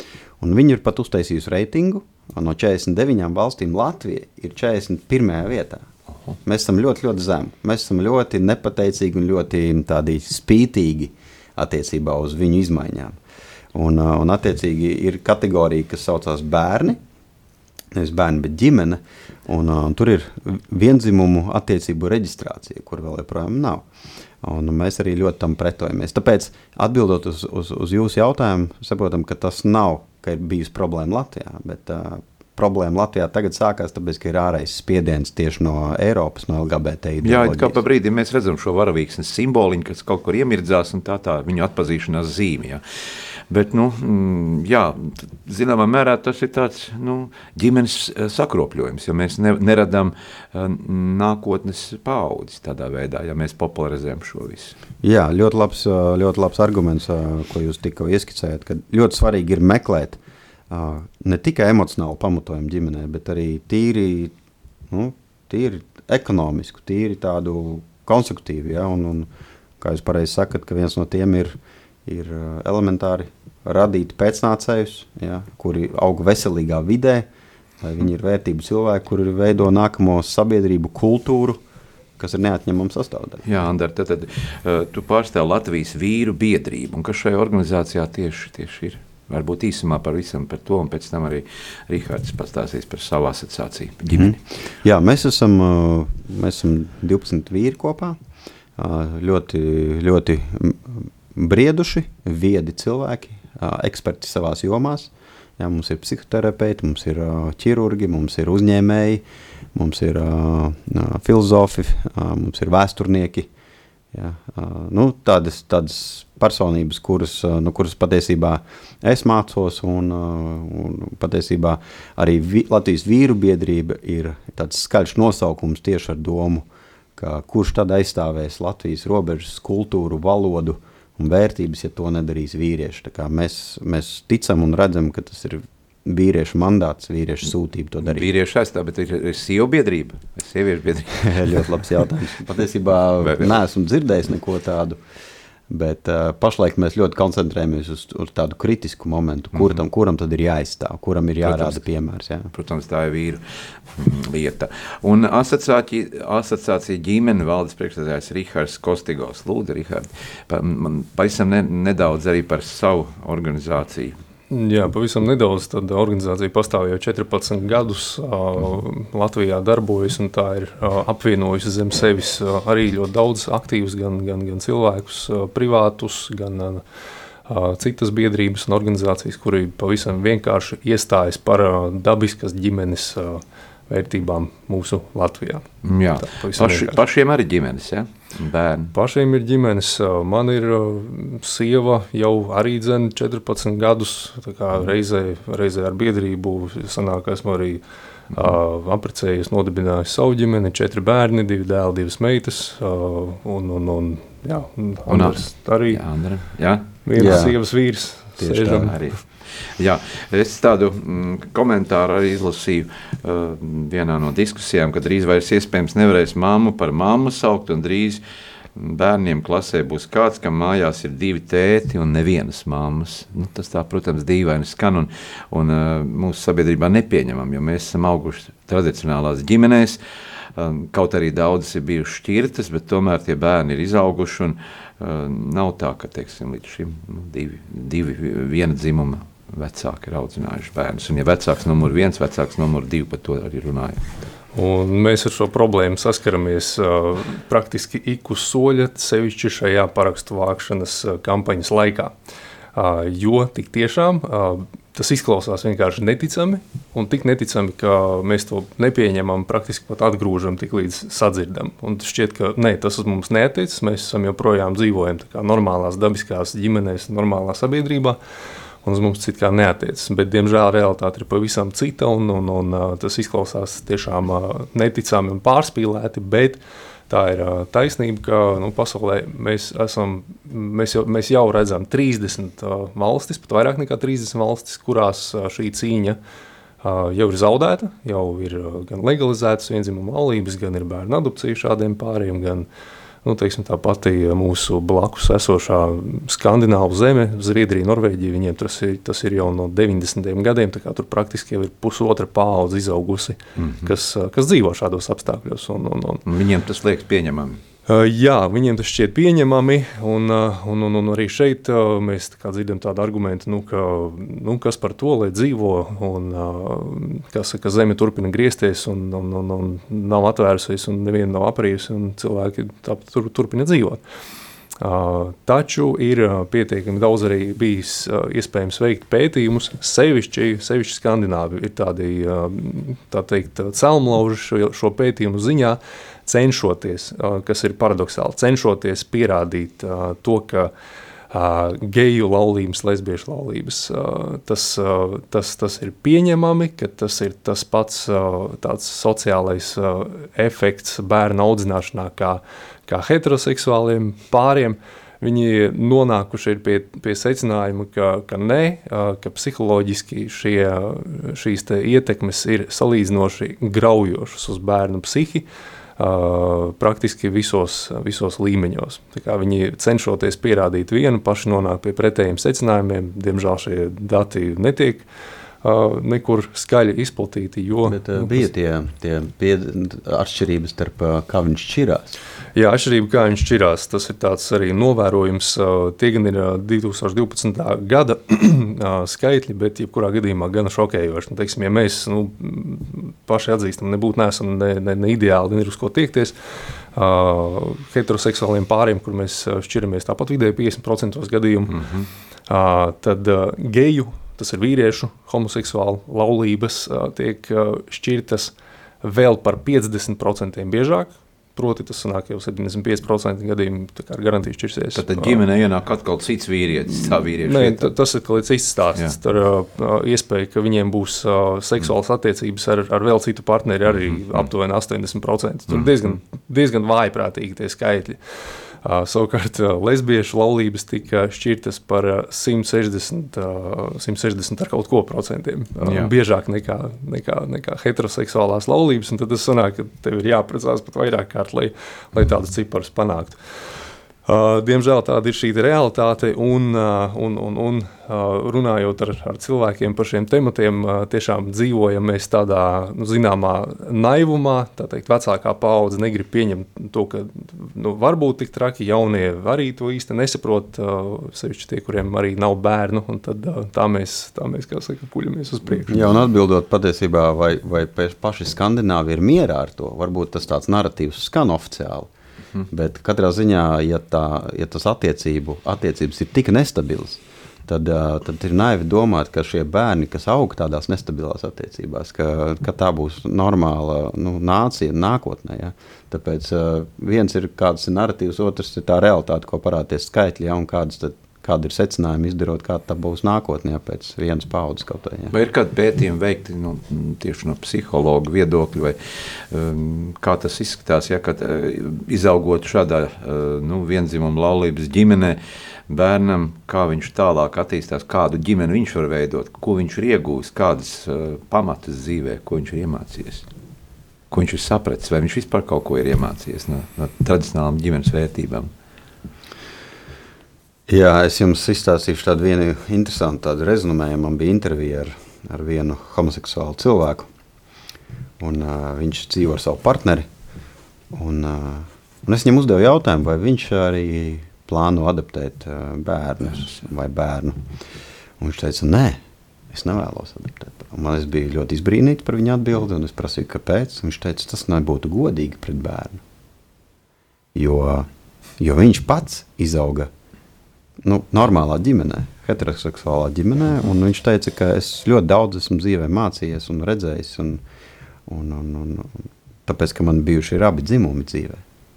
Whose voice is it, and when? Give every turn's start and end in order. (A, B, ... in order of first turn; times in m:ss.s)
0:00.4-0:05.8 A
0:06.4-0:13.1 A
0:13.7-0:17.0 A
0:17.9-0:23.8 A
0:24.4-0:37.8 A
0:37.2-0:42.8 B
0:43.5-0:54.8 B
0:55.0-1:00.2 A
1:00.7-1:04.3 A
1:04.9-1:09.3 A
1:09.8-1:17.3 A
1:17.8-1:21.6 A
1:22.2-1:23.4 A
1:23.4-1:34.4 B
1:34.1-1:38.2 A
1:38.8-1:53.5 A
1:54.1-2:06.6 A
2:07.2-2:18.2 A
2:18.0-2:21.7 B
2:21.2-2:25.0 A
2:23.2-2:23.6 B
2:25.7-2:32.5 A
2:31.4-2:31.8 B
2:32.5-2:44.1 B
2:44.5-2:56.8 C
2:57.5-3:07.0 C
3:05.8-3:08.9 B
3:08.9-3:26.0 C
3:25.1-3:27.4 B
3:27.0-3:29.0 C
3:27.2-3:27.6 A
3:28.4-3:29.0 A
3:28.9-3:38.2 B
3:38.7-3:50.0 B
3:50.6-4:04.0 B
4:04.5-4:12.1 C
4:12.7-4:28.2 C
4:28.8-4:46.2 C
4:46.8-4:52.7 C
4:53.2-5:06.2 C
5:03.6-5:03.9 B
5:06.2-5:07.6 B
5:07.9-5:24.0 C
5:24.8-5:40.7 C
5:41.3-6:05.4 C
6:06.0-6:15.0 C
6:15.6-6:18.5 C
6:17.8-6:22.2 A
6:22.6-6:36.3 C
6:36.9-6:41.8 C
6:41.7-6:42.1 B
6:42.5-6:55.4 C
6:54.9-6:57.9 B
6:56.9-7:23.4 C
7:04.0-7:04.5 B
7:05.7-7:06.2 B
7:15.8-7:16.1 B
7:24.2-7:46.1 C
7:45.9-7:52.1 A
7:52.7-8:15.3 A
8:15.3-8:33.4 B
8:34.3-8:38.7 B
8:40.9-8:47.3 A
8:48.4-8:50.2 A
8:51.1-8:57.6 A
8:58.4-8:59.2 A
8:59.7-9:06.2 A
9:07.5-9:08.0 A
9:08.6-9:10.1 A
9:11.0-9:17.6 A
9:18.3-9:21.6 A